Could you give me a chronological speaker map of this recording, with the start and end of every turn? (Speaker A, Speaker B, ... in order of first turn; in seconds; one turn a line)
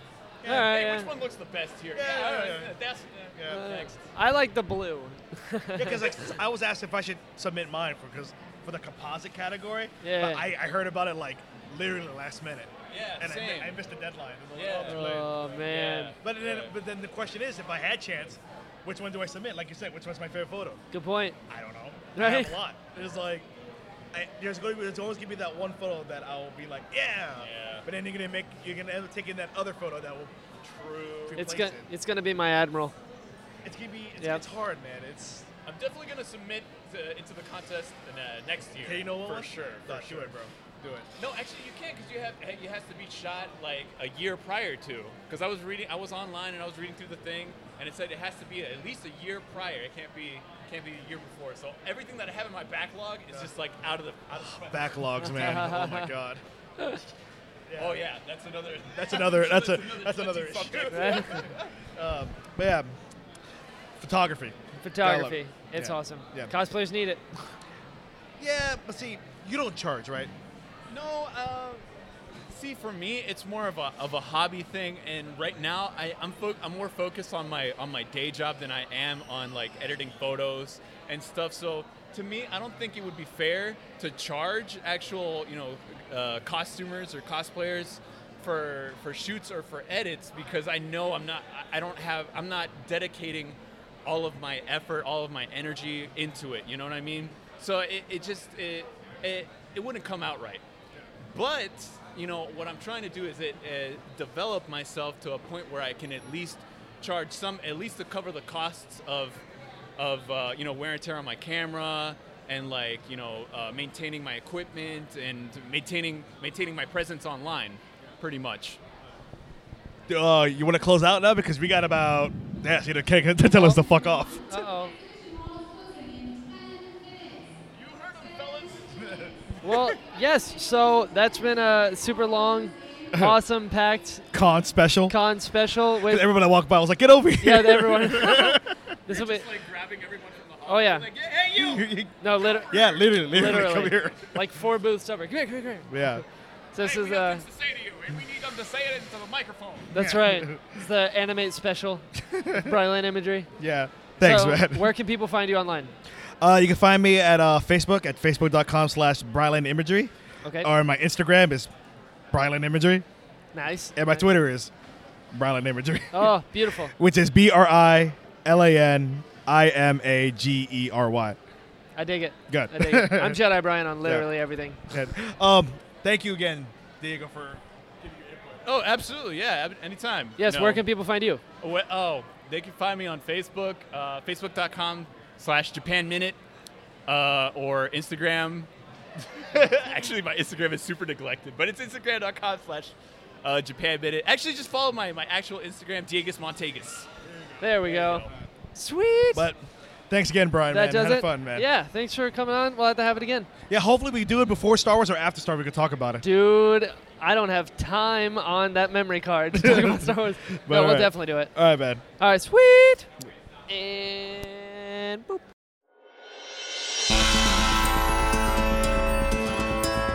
Speaker A: 0.4-4.1
Speaker B: 0.4-1.1
Speaker C: 1.9-2.7
Speaker C: 3.4-3.6
Speaker B: 3.5-6.2
Speaker C: 5.7-15.3
Speaker B: 10.0-10.4
Speaker A: 12.9-13.8
Speaker A: 14.5-16.7
Speaker B: 14.9-16.1
Speaker C: 16.2-20.8
Speaker B: 20.9-21.4
Speaker C: 21.5-23.5
Speaker B: 22.1-22.6
Speaker C: 24.1-30.4
Speaker A: 27.4-27.9
Speaker A: 30.6-31.4
Speaker C: 31.2-31.9
Speaker B: 31.4-32.9
Speaker C: 33.6-35.5
Speaker A: 35.6-40.3
Speaker C: 38.8-41.1
Speaker A: 41.2-55.6
Speaker C: 54.4-56.4
Speaker B: 55.2-56.1
Speaker C: 57.7-58.0
Speaker A: 57.8-61.7
Speaker C: 58.9-62.9
Speaker B: 60.9-61.5
Speaker C: 64.0-66.5
Speaker B: 64.8-67.2
Speaker C: 68.4-70.3
Speaker A: 70.9-71.8
Speaker A: 72.5-100.6
Speaker A: 101.3-109.4
Speaker A: 110.0-118.8
Speaker C: 120.1-124.6
Speaker B: 123.4-123.8
Speaker B: 124.5-124.9
Speaker A: 127.7-129.4
Speaker B: 129.6-134.3
Speaker C: 134.3-135.2
Speaker B: 135.1-136.3
Speaker C: 136.0-138.8
Speaker B: 137.4-139.4
Speaker A: 139.1-141.9
Speaker B: 140.7-141.1
Speaker C: 141.5-144.4
Speaker B: 142.2-146.1
Speaker A: 142.5-142.9
Speaker C: 145.9-146.2
Speaker B: 146.7-147.4
Speaker A: 146.8-149.9
Speaker B: 149.9-153.5
Speaker C: 149.9-150.8
Speaker C: 152.2-152.7
Speaker C: 153.6-154.9
Speaker B: 154.2-155.9
Speaker C: 156.4-161.7
Speaker B: 160.4-160.7
Speaker C: 162.3-163.1
Speaker B: 163.5-164.3
Speaker C: 163.9-164.7
Speaker C: 165.3-171.4
Speaker B: 166.1-166.9
Speaker B: 171.9-174.8
Speaker C: 172.5-173.4
Speaker C: 174.1-174.3
Speaker C: 174.9-178.6
Speaker A: 178.6-180.8
Speaker B: 180.4-181.4
Speaker A: 181.6-186.4
Speaker A: 187.1-197.1
Speaker C: 197.3-198.4
Speaker B: 197.6-199.5
Speaker A: 197.8-198.3
Speaker C: 199.3-201.7
Speaker B: 200.7-203.5
Speaker C: 203.7-206.2
Speaker B: 206.2-211.5
Speaker C: 209.5-212.0
Speaker B: 212.2-213.1
Speaker B: 213.7-215.4